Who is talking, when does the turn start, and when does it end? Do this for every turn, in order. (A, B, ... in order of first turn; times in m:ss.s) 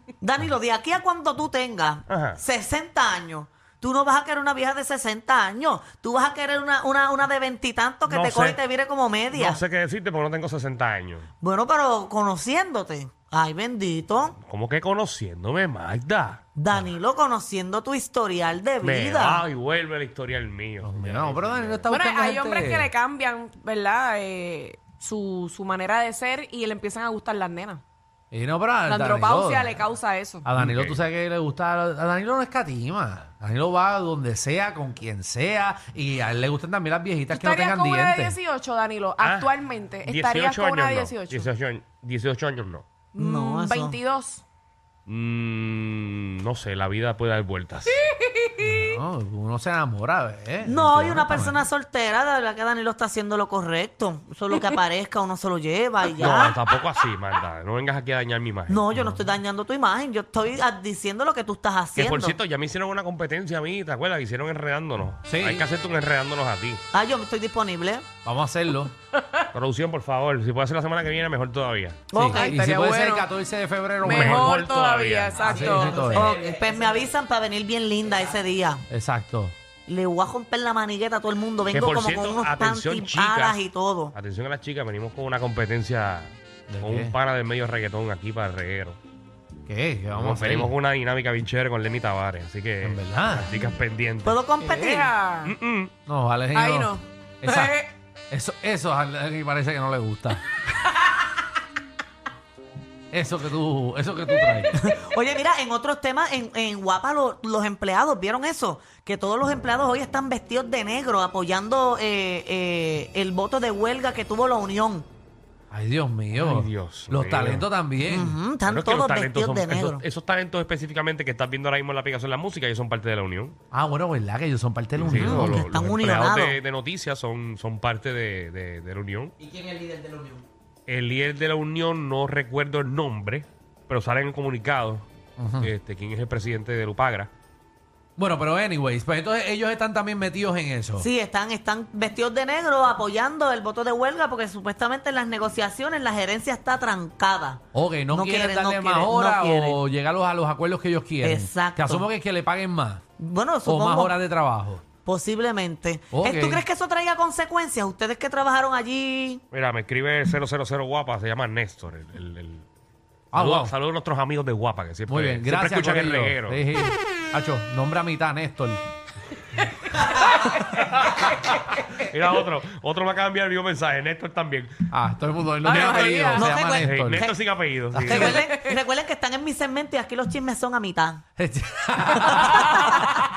0:00.2-0:09.6 A
0:02.1-0:02.4 B
0:08.1-0:08.6 B
0:09.3-0:11.3 B
0:11.4-0:14.4 A
0:14.4-0:16.4 B
0:16.6-0:19.4 A
0:18.8-0:21.9 B
0:20.8-0:22.9 C
0:21.9-0:27.8 D
0:28.3-0:29.8 C
0:28.8-0:30.5 D
0:30.4-0:38.4 C
0:30.6-0:31.0 B
0:37.3-0:41.5 D
0:39.2-0:39.5 B
0:40.0-0:42.9 B
0:43.1-0:44.4 D
0:43.2-0:44.0 A
0:45.1-0:48.0 B
0:48.0-0:48.9 D
0:48.6-0:51.7 C
0:50.6-0:56.6 A
0:56.2-0:58.8 B
0:58.7-1:02.4 A
0:58.9-0:59.2 C
1:02.0-1:06.8 B
1:05.3-1:05.7 C
1:06.9-1:08.1 A
1:08.2-1:08.9 C
1:09.5-1:12.1 B
1:12.1-1:12.6 A
1:12.1-1:14.6 C
1:12.4-1:13.3 D
1:14.0-1:16.3 D
1:14.0-1:16.1 B
1:15.4-1:16.4 C
1:15.5-1:17.1 E
1:16.1-1:18.8 A
1:18.9-1:19.5 C
1:19.9-1:24.1 A
1:21.7-1:23.6 B
1:24.1-1:29.0 B
1:26.7-1:27.2 C
1:29.7-1:30.7 C
1:30.1-1:34.4 B
1:32.8-1:33.5 C
1:34.2-1:35.1 A
1:34.6-1:35.5 D
1:35.4-1:35.9 B
1:36.1-1:36.9 C
1:36.5-1:37.9 D
1:37.4-1:37.8 C
1:38.3-1:40.4 C
1:43.1-1:44.8 C
1:44.7-1:55.1 A
1:55.7-1:58.4 C
1:56.3-1:57.7 B
1:58.1-2:00.0 A
1:58.7-2:03.6 B
2:03.7-2:05.9 C
2:05.0-2:09.3 B
2:05.1-2:06.6 A
2:09.4-2:10.4 E
2:10.9-2:15.1 B
2:15.4-2:15.7 C
2:15.6-2:17.3 B
2:18.2-2:21.1 C
2:21.0-2:29.8 A
2:27.7-2:33.0 C
2:31.2-2:32.1 A
2:33.2-2:34.2 A
2:33.6-2:34.8 C
2:35.0-2:39.4 A
2:36.1-2:36.6 C
2:39.5-2:42.7 B
2:43.3-2:43.7 C
2:43.3-2:46.6 B
2:45.1-2:48.8 C
2:50.5-2:54.7 B
2:54.9-2:57.3 C
2:55.6-2:56.6 D
2:55.9-2:58.4 B
2:56.3-2:57.4 A
2:57.9-2:58.5 C
2:58.0-3:01.2 A
2:58.5-2:58.7 D
3:01.4-3:03.2 C
3:02.2-3:03.0 A